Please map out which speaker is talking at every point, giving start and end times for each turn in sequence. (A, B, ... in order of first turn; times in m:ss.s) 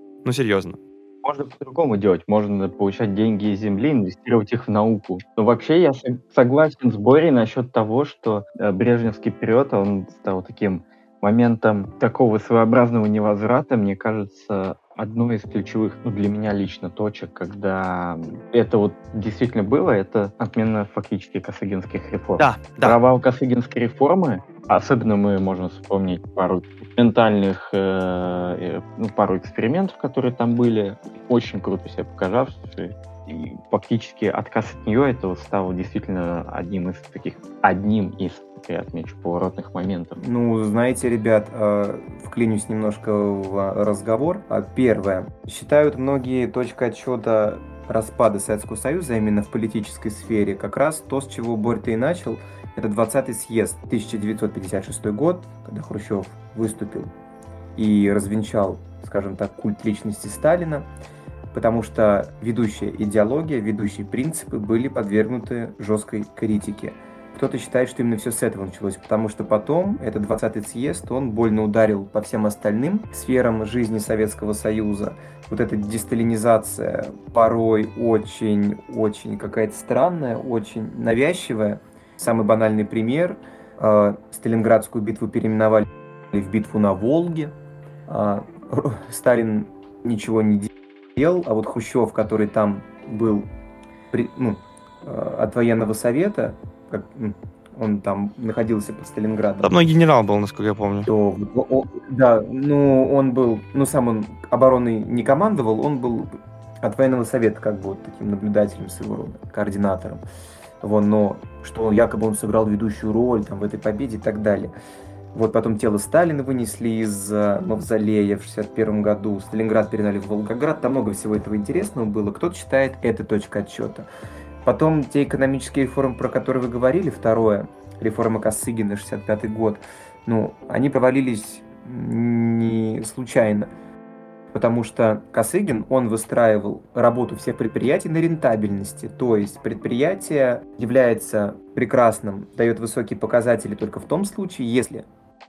0:00.2-0:00.8 A
0:01.2-0:40.2 B
0:22.4-0:23.0 A
0:40.2-0:57.1 C
0:57.8-1:00.9 C
1:01.5-1:27.5 C
1:28.1-1:33.5 C
1:34.1-1:39.8 C
1:39.6-1:41.1 A
1:41.1-1:50.2 C
1:50.8-1:54.7 C
1:55.3-2:04.1 C
2:04.6-2:13.7 C
2:14.5-2:25.0 C